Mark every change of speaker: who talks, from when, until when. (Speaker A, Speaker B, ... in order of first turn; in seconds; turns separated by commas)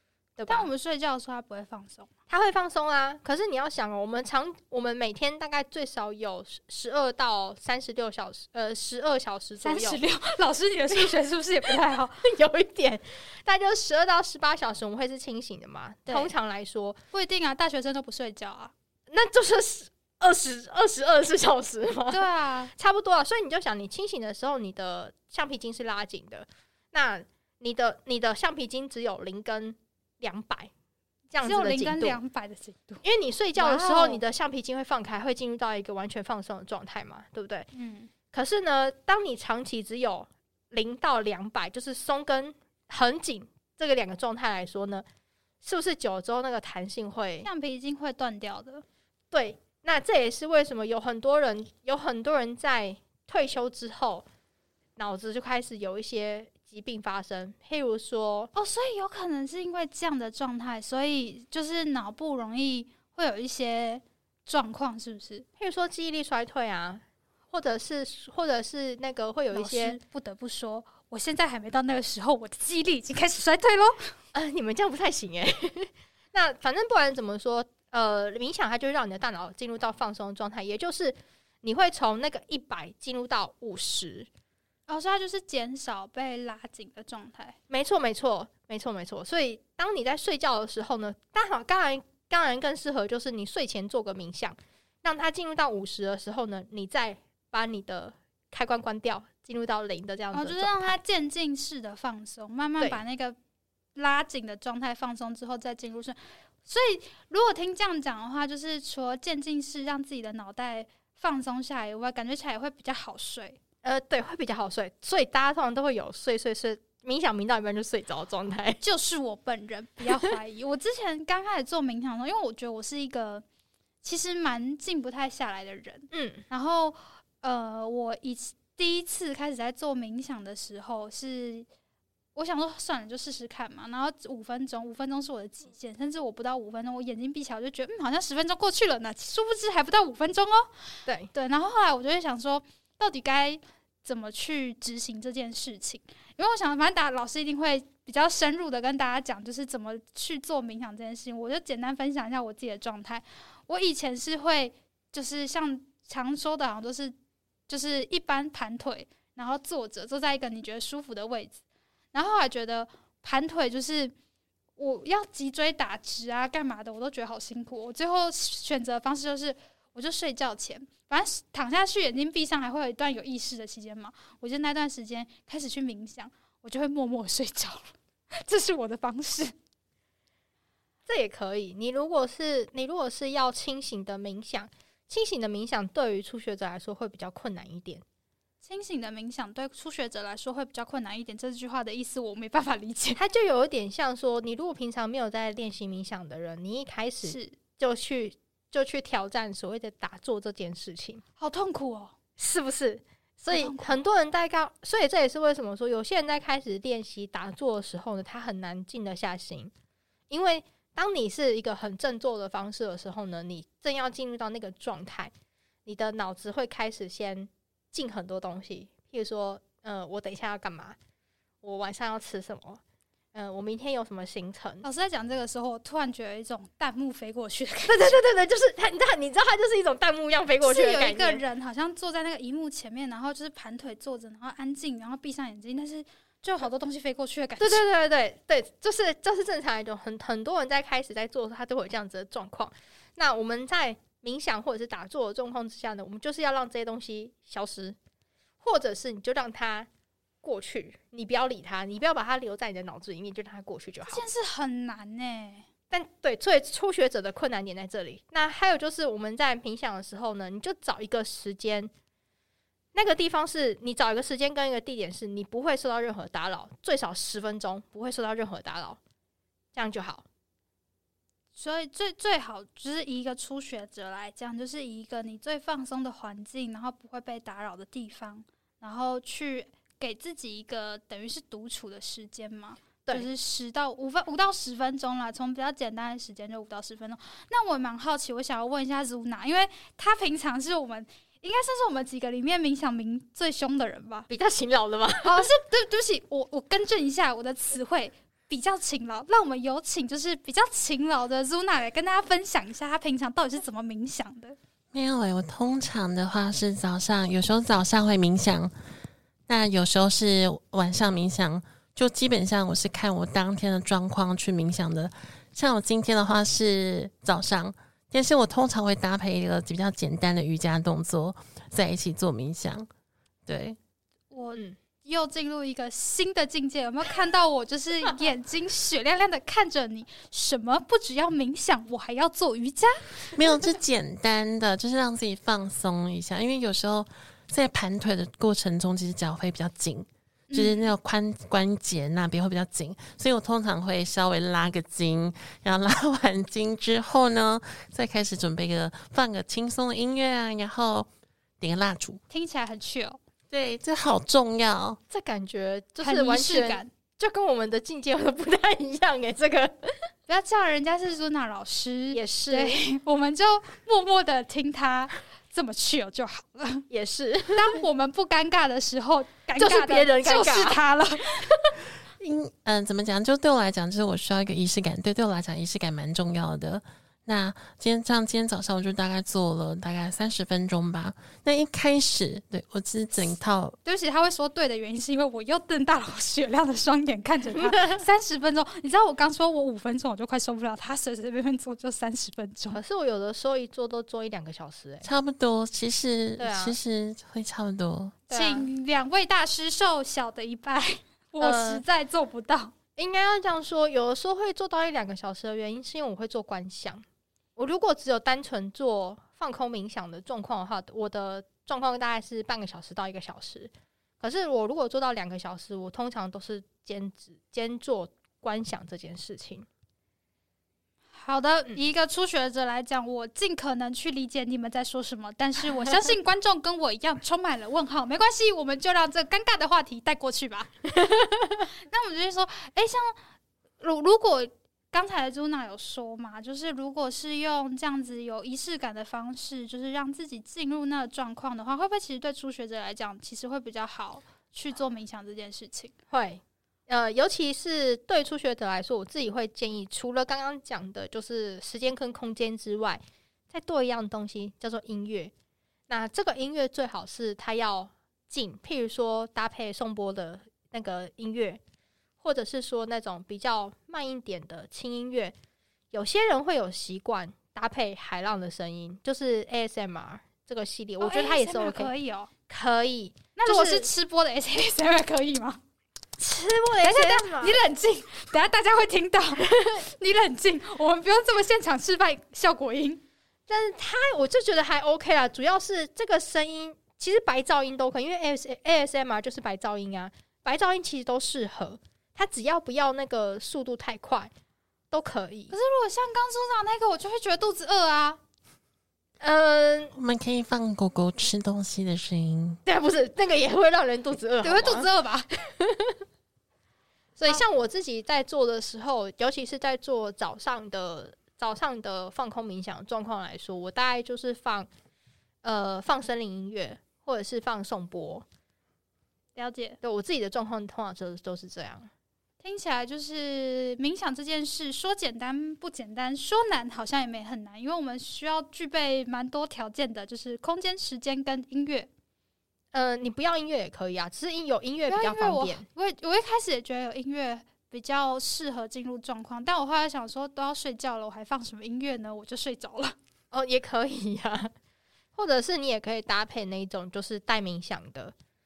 Speaker A: 0.4-0.7, Speaker B: 0.5-2.1, Speaker A: 2.3-10.0, Speaker B: 9.6-12.2, Speaker A: 12.2-17.0, Speaker B: 16.1-16.3, Speaker B: 17.1-18.7, Speaker A: 19.1-30.7, Speaker B: 22.1-22.7, Speaker A: 31.3-32.2, Speaker B: 31.4-33.0, Speaker A: 33.0-37.7, Speaker B: 33.5-34.2, Speaker B: 37.7-38.1, Speaker A: 38.3-45.0, Speaker A: 45.6-47.5, Speaker B: 47.4-48.8, Speaker A: 49.3-54.3, Speaker A: 55.0-58.5, Speaker B: 58.5-65.5, Speaker A: 65.6-70.0, Speaker B: 69.5-74.1, Speaker A: 74.3-84.3, Speaker B: 84.9-87.6, Speaker A: 87.7-101.0, Speaker B: 100.3-103.4, Speaker B: 104.0-113.6, Speaker A: 113.8-118.8, Speaker B: 118.8-123.5, Speaker B: 124.0-131.7, Speaker A: 126.1-126.5, Speaker B: 132.3-140.7, Speaker B: 141.3-157.2, Speaker B: 157.7-161.6, Speaker B: 162.1-164.2, Speaker B: 164.8-179.5, Speaker A: 181.1-188.0, Speaker B: 188.6-193.2, Speaker A: 193.2-201.2, Speaker B: 197.2-197.6, Speaker B: 201.4-202.2, Speaker A: 202.4-209.7, Speaker B: 203.5-204.0, Speaker A: 210.3-215.3, Speaker A: 215.9-221.0, Speaker A: 221.6-222.8, Speaker A: 223.3-224.8, Speaker B: 224.8-228.1, Speaker A: 227.9-231.4, Speaker B: 230.6-237.8, Speaker A: 237.6-248.0, Speaker A: 248.6-249.9, Speaker A: 250.4-254.2, Speaker B: 254.1-255.7, Speaker A: 255.9-261.9, Speaker A: 262.9-269.0, Speaker A: 269.8-270.3, Speaker B: 271.6-294.3, Speaker A: 294.3-295.5, Speaker B: 295.2-304.6, Speaker C: 304.9-308.7, Speaker C: 309.5-322.9, Speaker C: 323.5-323.8, Speaker B: 324.3-333.3, Speaker C: 333.4-351.1, Speaker B: 340.5-340.9, Speaker C: 351.6-352.2, Speaker B: 352.3-353.2, Speaker C: 353.5-355.0, Speaker A: 355.1-359.9, Speaker B: 356.0-356.9, Speaker B: 360.3-366.9, Speaker A: 362.1-362.8, Speaker A: 366.9-367.8, Speaker B: 367.5-371.5, Speaker A: 369.6-370.8, Speaker C: 372.2-383.8, Speaker B: 383.9-392.8, Speaker A: 387.6-388.0, Speaker A: 392.7-395.1, Speaker C: 395.0-398.1, Speaker A: 396.4-396.8, Speaker B: 398.3-402.7, Speaker A: 398.3-398.7, Speaker A: 401.4-401.8, Speaker A: 403.0-407.0, Speaker A: 407.6-419.7, Speaker B: 421.1-430.7, Speaker B: 431.9-433.1, Speaker B: 433.8-445.9, Speaker A: 446.1-455.3, Speaker A: 455.9-461.6, Speaker A: 462.2-465.4, Speaker A: 465.9-471.9, Speaker B: 471.0-472.3, Speaker A: 472.5-473.9, Speaker B: 473.4-475.6, Speaker A: 476.2-477.6, Speaker B: 476.8-483.0, Speaker A: 483.5-494.3, Speaker A: 494.9-495.5, Speaker B: 495.5-498.2, Speaker A: 499.2-499.9, Speaker C: 499.9-502.6, Speaker A: 502.7-504.9, Speaker B: 504.4-505.3, Speaker A: 505.6-505.9, Speaker A: 507.2-514.7, Speaker A: 515.4-518.3, Speaker B: 519.4-519.8, Speaker A: 519.8-521.9, Speaker B: 522.4-531.9, Speaker A: 532.7-535.6, Speaker B: 534.9-543.0, Speaker A: 543.3-544.5, Speaker A: 545.1-548.1